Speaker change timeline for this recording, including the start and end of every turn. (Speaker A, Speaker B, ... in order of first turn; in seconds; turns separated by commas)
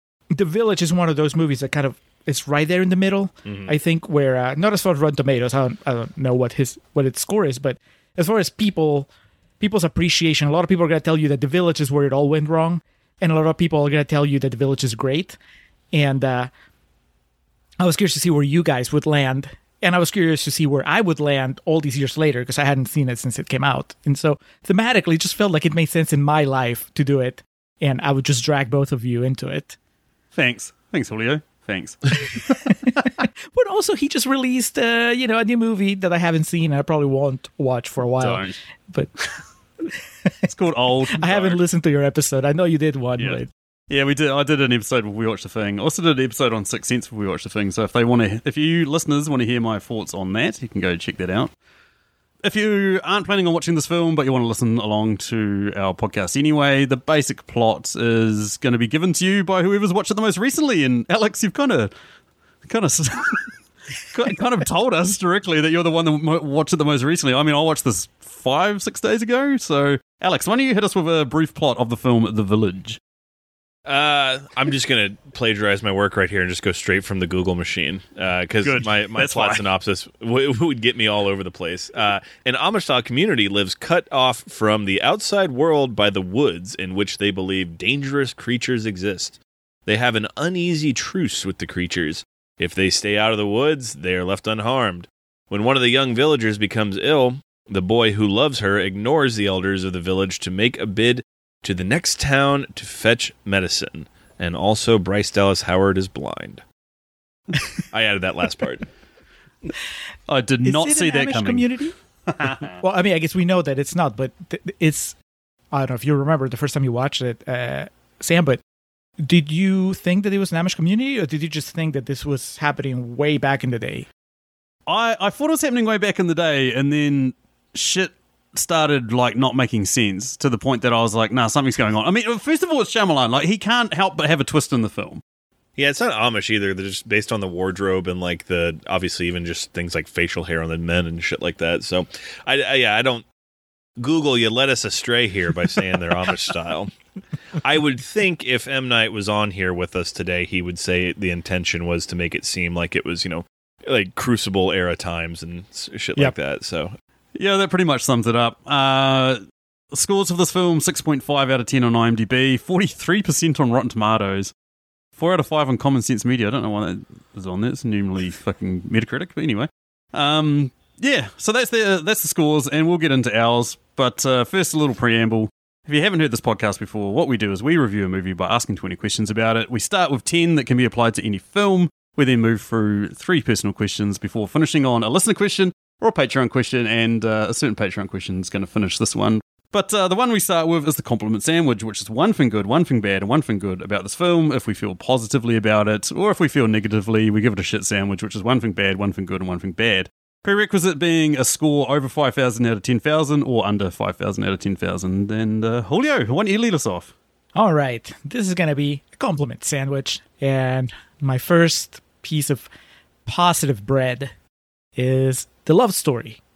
Speaker A: 0.3-9.1, Speaker B: 3.5-3.7, Speaker A: 9.6-15.4, Speaker A: 15.9-16.5, Speaker A: 17.8-29.8, Speaker C: 30.3-32.4, Speaker A: 32.3-39.1, Speaker C: 38.2-38.6, Speaker A: 39.8-40.3, Speaker C: 40.5-41.6, Speaker A: 41.1-43.5, Speaker C: 43.2-51.5, Speaker C: 52.5-61.9, Speaker C: 62.6-73.0, Speaker B: 73.9-106.6, Speaker C: 78.6-79.6, Speaker B: 107.8-108.9, Speaker C: 110.3-111.7, Speaker A: 110.6-111.9, Speaker C: 112.3-112.7, Speaker A: 112.7-115.2, Speaker A: 115.7-118.6, Speaker A: 119.2-124.1, Speaker C: 124.9-135.2, Speaker B: 135.8-143.2, Speaker B: 144.0-146.9, Speaker B: 147.6-156.9, Speaker C: 157.4-159.4, Speaker C: 159.9-164.5, Speaker C: 165.2-207.1, Speaker A: 207.6-212.7, Speaker A: 213.3-214.3, Speaker A: 215.0-216.4